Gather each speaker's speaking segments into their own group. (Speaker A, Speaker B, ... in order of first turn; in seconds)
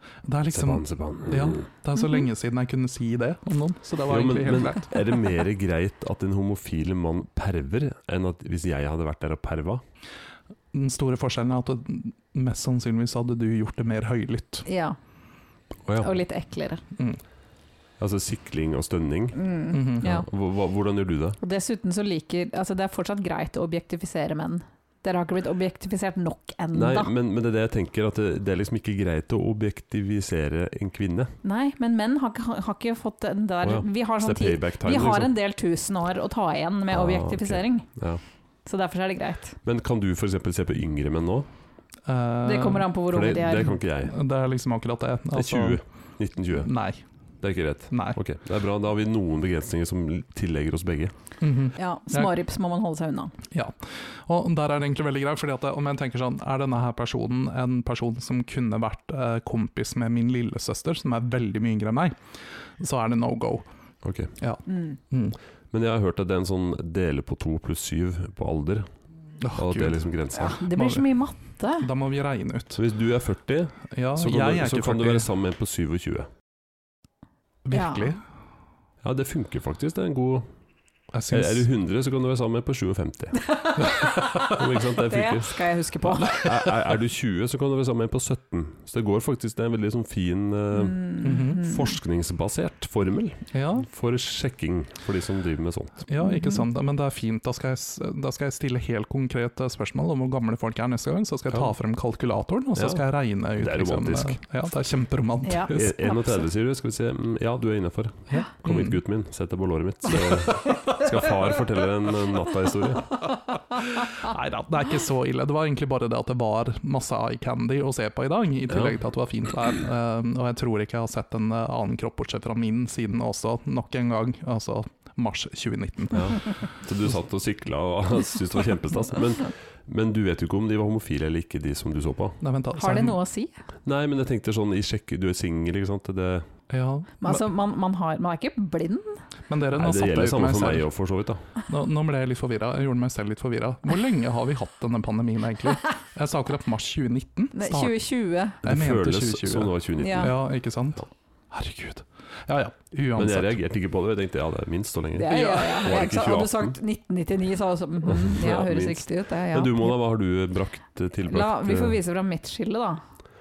Speaker A: 0.2-4.9, 10.7-14.7, 19.7-20.1, 42.0-42.9, 44.0-45.8, 46.5-47.0, 47.9-48.2, 51.4-52.3, 53.5-62.2, 62.8-63.7, 64.4-65.4, 69.4-70.0, 70.7-71.0, 71.8-72.8, 73.9-75.3, 77.6-78.2, 81.1-81.7, 91.2-91.7, 93.5-93.9, 96.1-105.9, 108.3-109.0, 110.1-110.8, 114.1-126.6, 132.4-133.2, 136.7-137.4, 139.5-140.9, 141.7-148.0, 148.6-153.6, 155.3-155.7
Speaker B: 0.5-1.6, 4.1-9.8, 15.8-16.1, 18.0-19.4, 20.0-21.4, 26.7-31.4, 33.6-35.3, 36.9-38.2, 39.6-41.5, 43.1-44.1, 45.3-46.7, 47.4-51.1, 64.0-64.3, 65.7-68.9, 69.5-70.6, 72.8-76.3, 79.0-80.5, 81.3-83.5, 84.3-96.0, 102.7-104.4, 105.7-113.1, 118.7-119.0, 126.1-132.4, 133.8-136.5, 139.7-141.4, 148.6-150.5, 153.2-156.8, 158.1-162.0
Speaker C: 14.7-15.0, 16.0-16.8, 19.3-20.2, 21.4-27.1, 31.4-37.9, 38.6-39.6, 42.4-43.8, 51.8-53.3, 64.7-65.0, 70.3-71.9, 77.7-78.1, 83.4-86.5, 90.7-91.9, 96.2-96.6, 105.4-106.4, 132.8-133.5, 137.2-139.2, 147.5-148.6, 150.0-150.3, 155.1-159.9, 161.3-163.0